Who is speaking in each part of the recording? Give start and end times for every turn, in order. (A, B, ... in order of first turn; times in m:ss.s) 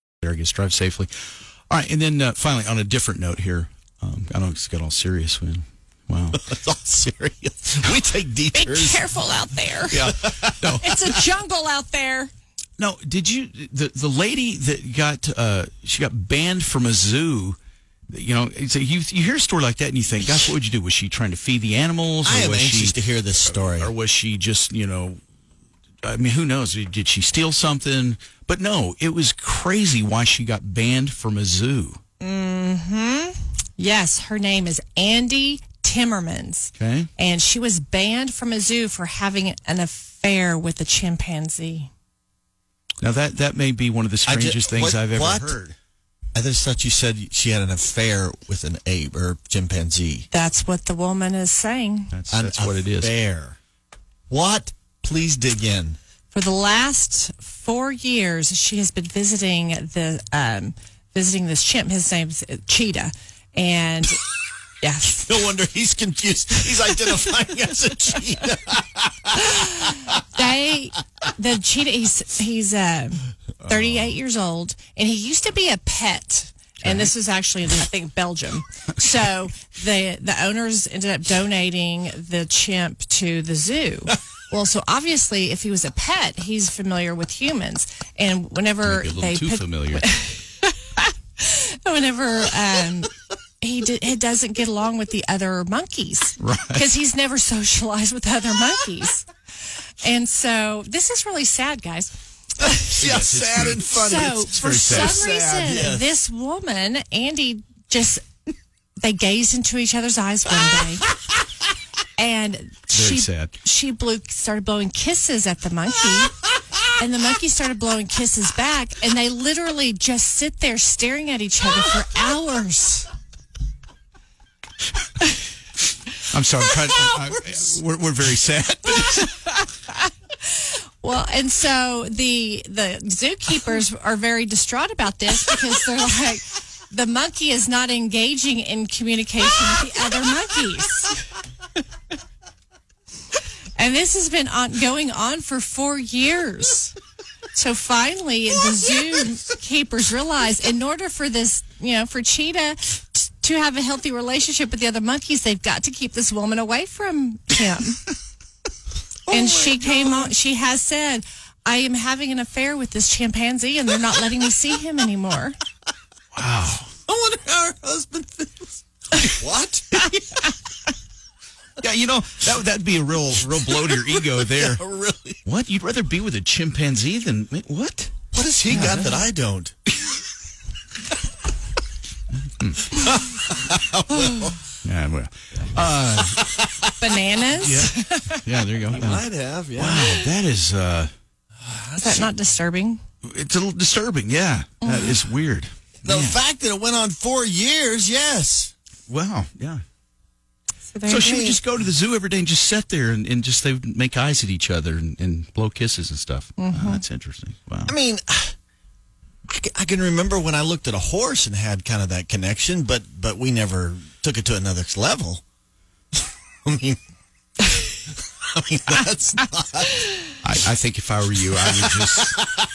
0:00.2-0:01.1 A
0:01.7-0:06.4 A
0:06.4-0:09.0 B
0:08.5-0:10.1 C
0:09.9-0:10.7 B
0:10.1-0:10.9 A
0:10.8-0:12.3 C
0:12.8-0:17.6 A
0:18.1-0:25.2 A
0:22.2-0:23.9 B
0:26.0-0:32.0 A
0:32.2-0:41.9 C
0:36.8-0:37.1 A
0:43.0-0:45.6 A
0:44.2-0:45.8 B
0:46.3-0:50.3 B
0:50.3-0:52.1 C
0:52.1-0:53.1 A
0:52.3-0:53.6 B
0:54.3-0:56.0 B
0:56.3-1:04.3 C
1:04.8-1:05.4 C
1:05.3-1:09.7 B
1:09.5-1:39.3 C
1:13.6-1:14.1 A
1:16.8-1:17.1 A
1:28.8-1:30.0 A
1:36.4-1:36.9 A
1:40.0-1:42.8 C
1:42.9-1:45.3 A
1:43.0-1:46.1 B
1:43.9-1:48.2 C
1:49.0-1:51.1 C
1:52.2-2:03.1 C
1:52.9-1:53.6 A
2:06.2-2:09.6 A
2:10.4-2:21.2 C
2:23.8-2:26.9 C
2:27.5-2:38.1 C
2:39.3-2:40.3 B
2:39.3-2:45.6 C
2:46.3-2:46.9 A
2:47.0-2:50.4 B
2:51.8-2:54.8 A
2:53.4-2:55.4 B
2:55.4-2:58.1 A
2:58.3-2:59.7 B
2:58.7-2:59.2 A
3:02.3-3:03.0 A
3:03.0-3:04.6 B
3:04.8-3:06.4 A
3:06.3-3:06.9 B
3:07.0-3:08.5 C
3:07.6-3:07.9 B
3:08.4-3:09.2 A
3:08.9-3:10.2 B
3:09.8-3:11.1 A
3:11.6-3:12.2 B
3:12.0-3:13.0 C
3:13.2-3:16.4 A
3:14.8-3:15.2 C
3:16.0-3:18.7 B
3:19.1-3:19.8 A
3:20.9-3:21.6 C
3:21.1-3:27.9 A
3:26.6-3:27.0 C
3:27.9-3:28.5 B
3:29.5-3:35.4 B
3:36.1-3:37.0 B
3:37.8-3:40.0 B
3:40.4-3:42.4 A